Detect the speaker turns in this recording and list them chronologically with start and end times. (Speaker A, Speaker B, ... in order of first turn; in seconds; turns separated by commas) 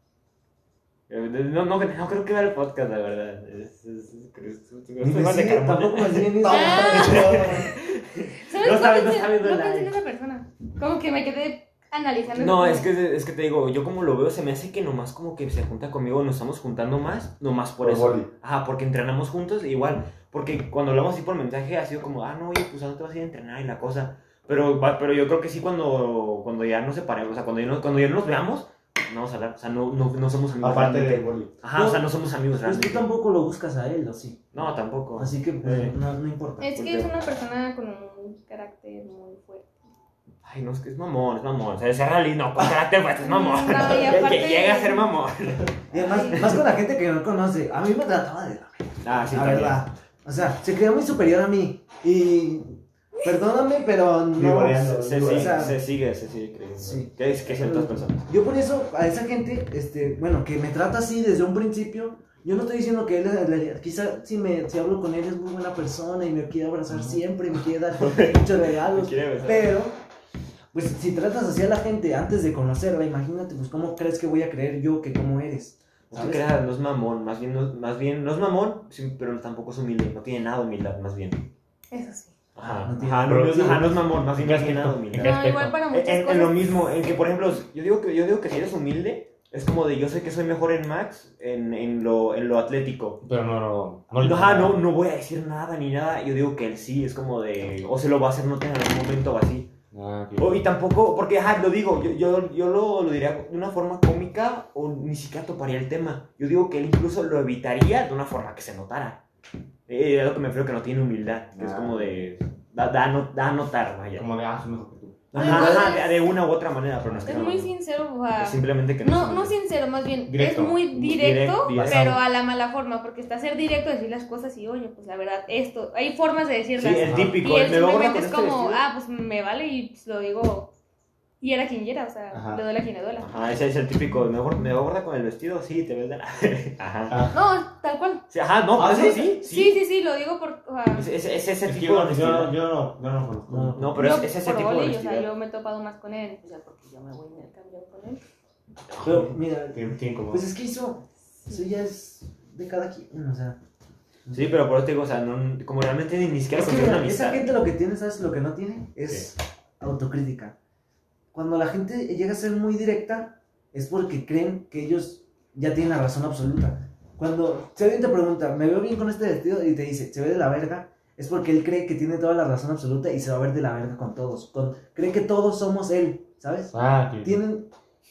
Speaker A: 1.1-9.9, Speaker B: 5.0-7.7, Speaker C: 6.4-7.7, Speaker D: 6.4-7.8, Speaker D: 8.4-12.9, Speaker A: 12.3-33.0, Speaker C: 17.8-18.3, Speaker C: 30.6-31.5, Speaker B: 31.7-32.1, Speaker B: 32.6-34.5, Speaker A: 34.5-36.0, Speaker B: 35.1-36.7, Speaker D: 36.6-39.7, Speaker A: 36.7-37.1, Speaker A: 40.4-45.7, Speaker D: 43.2-45.1, Speaker D: 45.9-46.5, Speaker B: 45.9-55.8, Speaker A: 46.2-46.6, Speaker A: 49.0-49.8, Speaker C: 54.3-55.7, Speaker A: 54.9-58.2, Speaker B: 56.8-70.0, Speaker C: 66.9-67.2, Speaker A: 67.9-69.8, Speaker B: 70.7-76.5, Speaker A: 76.1-81.5, Speaker D: 81.9-82.3, Speaker A: 82.5-93.2, Speaker B: 82.7-83.9, Speaker C: 83.3-85.8, Speaker D: 85.2-86.8, Speaker C: 93.2-94.8, Speaker A: 94.2-99.7, Speaker C: 99.9-100.6, Speaker A: 100.4-109.2, Speaker A: 109.9-114.3, Speaker C: 111.5-112.2, Speaker C: 114.2-115.5, Speaker A: 115.3-117.7, Speaker D: 115.3-116.3, Speaker B: 115.4-115.7, Speaker C: 117.1-117.5, Speaker D: 117.2-130.7, Speaker A: 118.3-119.5, Speaker C: 120.3-120.8, Speaker A: 120.9-122.2, Speaker C: 121.7-122.1, Speaker A: 126.8-128.8, Speaker C: 127.0-127.4, Speaker D: 131.4-133.3, Speaker C: 132.3-132.6, Speaker A: 133.2-137.3, Speaker C: 137.1-137.4, Speaker D: 137.3-138.2, Speaker A: 138.3-139.8, Speaker C: 138.8-139.3, Speaker B: 138.8-139.2, Speaker D: 139.4-141.1, Speaker A: 140.9-142.5, Speaker C: 141.6-144.0, Speaker B: 143.5-143.9, Speaker A: 143.8-145.3, Speaker D: 144.0-148.2, Speaker C: 149.0-150.4, Speaker B: 149.0-153.6, Speaker B: 154.2-154.6, Speaker A: 154.3-157.5, Speaker B: 156.5-160.6, Speaker B: 161.3-177.7, Speaker C: 176.7-177.4